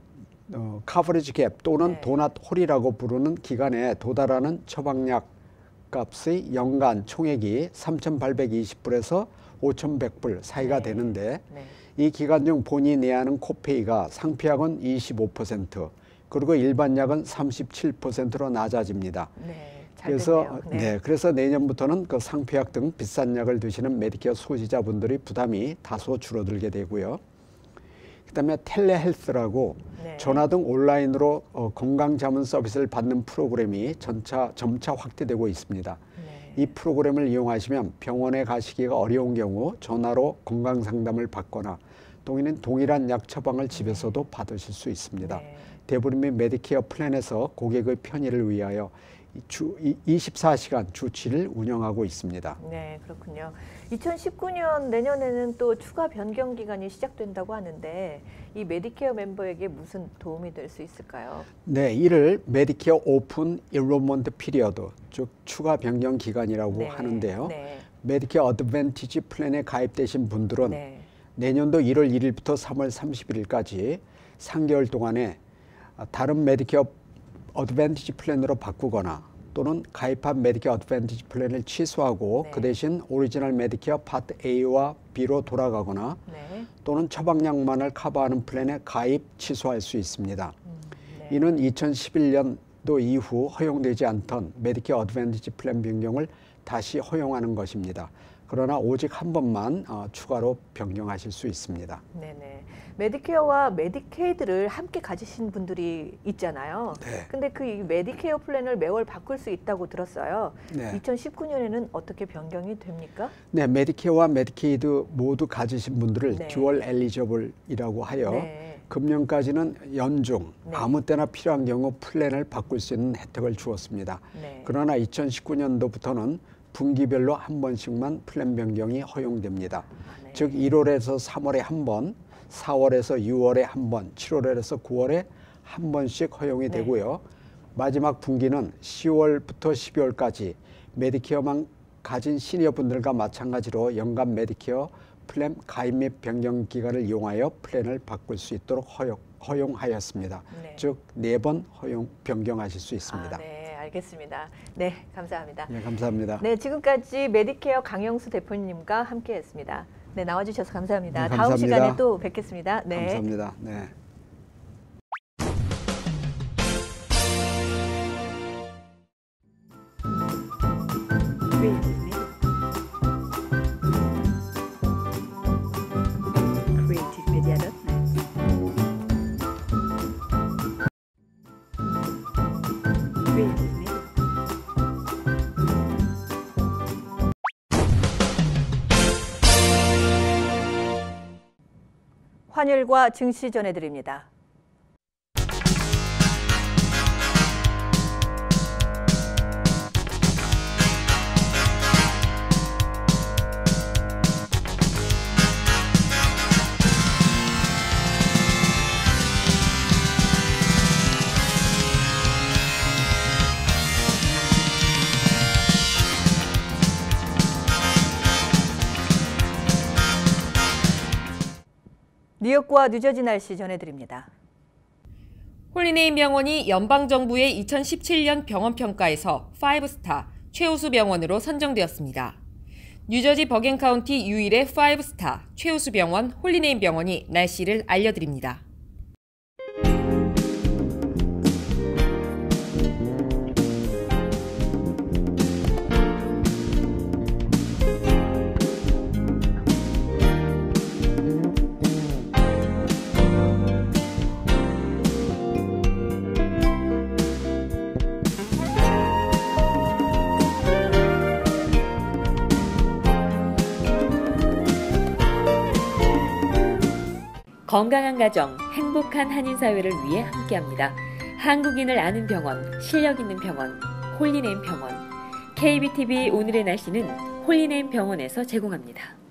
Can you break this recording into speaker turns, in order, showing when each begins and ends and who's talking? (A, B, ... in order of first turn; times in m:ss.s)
0:00.5-0:05.3 A
0:01.8-0:02.1 B
0:05.9-0:19.3 A
0:10.6-0:11.8 B
0:19.4-0:20.9 B
0:20.0-0:27.2 A
0:28.3-0:36.0 A
0:30.0-0:30.4 B
0:36.2-0:36.7 B
0:36.5-0:52.6 A
0:43.7-0:44.2 B
0:45.2-0:45.7 B
0:52.6-1:01.5 B
1:01.6-1:10.8 A
1:06.7-1:07.8 B
1:10.6-1:11.1 B
1:11.4-1:15.4 A
1:16.0-1:17.0 A
1:17.5-1:26.2 A
1:22.4-1:22.7 B
1:26.3-1:26.7 B
1:26.8-1:30.5 A
1:30.7-1:31.4 B
1:31.3-1:42.0 A
1:42.1-1:53.3 B
1:47.0-1:47.3 A
1:50.7-1:51.0 A
1:53.5-2:33.4 A
1:56.3-1:56.7 B
1:58.2-1:58.8 B
2:00.6-2:00.9 B
2:04.3-2:04.7 B
2:10.0-2:10.6 B
2:16.7-2:16.9 B
2:30.5-2:30.8 B
2:33.1-2:35.7 B
2:35.7-2:36.4 A
2:36.4-2:43.2 B
2:41.1-2:42.0 A
2:42.9-2:43.9 A
2:51.6-2:52.3 B
2:56.8-2:58.0 B
3:03.4-3:04.0 B
3:12.5-3:14.3 B
3:42.4-3:44.3 B
3:45.7-3:52.4 C
3:53.1-3:58.6 C
4:27.6-4:39.2 D